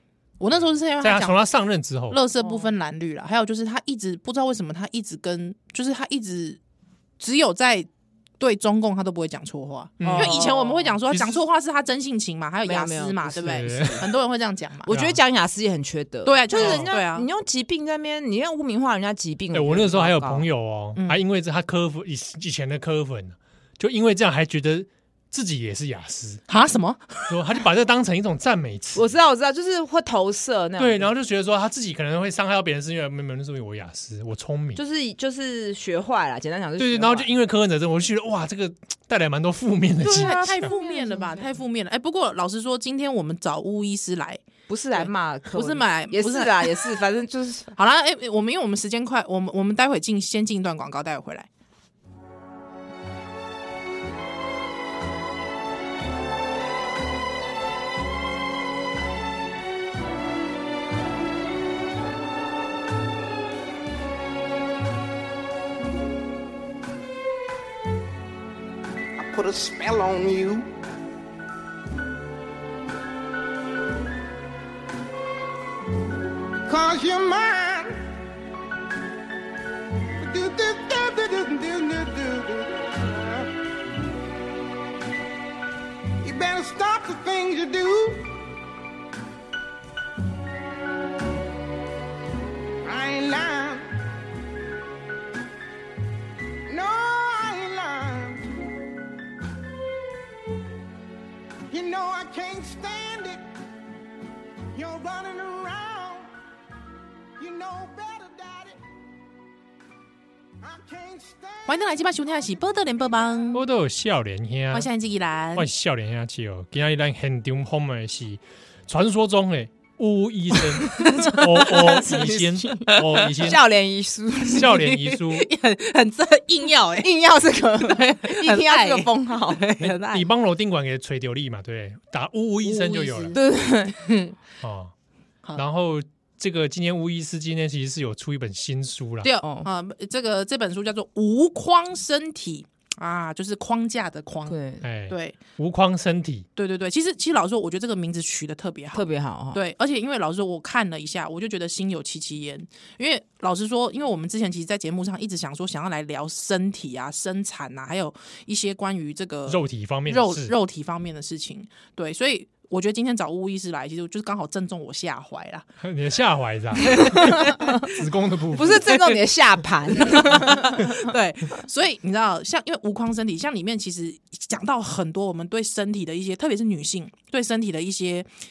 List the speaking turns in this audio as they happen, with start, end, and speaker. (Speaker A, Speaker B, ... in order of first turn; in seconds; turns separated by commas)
Speaker A: 0.4-1.4, Speaker B: 1.0-2.2, Speaker A: 2.1-6.6, Speaker A: 7.2-7.9, Speaker A: 8.4-14.9, Speaker B: 10.0-10.5, Speaker C: 10.0-10.9, Speaker B: 11.1-11.4, Speaker C: 12.6-13.6, Speaker B: 13.3-14.1, Speaker C: 14.9-20.4, Speaker B: 14.9-15.2, Speaker A: 16.2-17.3, Speaker B: 16.6-16.9, Speaker B: 19.5-26.4, Speaker A: 26.5-27.4, Speaker B: 27.3-29.1, Speaker C: 28.9-31.1, Speaker B: 30.8-34.8, Speaker C: 34.8-37.3, Speaker B: 36.8-40.7, Speaker A: 40.0-44.4, Speaker C: 40.1-41.5, Speaker C: 44.7-47.7, Speaker A: 45.0-46.7, Speaker A: 47.8-51.5, Speaker D: 69.2-70.7, Speaker D: 76.6-78.0, Speaker D: 80.2-83.5, Speaker D: 86.2-88.3, Speaker D: 92.8-93.9, Speaker D: 96.7-98.5, Speaker D: 101.7-103.4, Speaker D: 104.7-106.3, Speaker D: 107.4-108.8, Speaker D: 110.6-111.7, Speaker A: 111.7-113.6, Speaker B: 113.5-114.9, Speaker A: 114.7-115.7, Speaker B: 115.5-123.6, Speaker A: 120.7-123.5, Speaker C: 123.4-124.7, Speaker B: 124.5-125.5, Speaker A: 124.5-127.1, Speaker C: 127.0-129.6, Speaker A: 127.9-130.2, Speaker B: 129.8-133.3, Speaker A: 132.6-133.4, Speaker C: 133.3-134.2, Speaker B: 134.6-134.9, Speaker B: 135.5-139.3, Speaker A: 139.2-144.6, Speaker C: 139.4-139.7, Speaker C: 144.4-144.8, Speaker B: 144.8-146.4, Speaker A: 145.1-145.4, Speaker A: 146.6-165.7, Speaker C: 148.9-149.6, Speaker B: 159.5-160.5, Speaker B: 165.8-169.1, Speaker A: 166.9-167.7, Speaker C: 167.0-167.9, Speaker C: 168.5-171.0, Speaker A: 170.1-178.3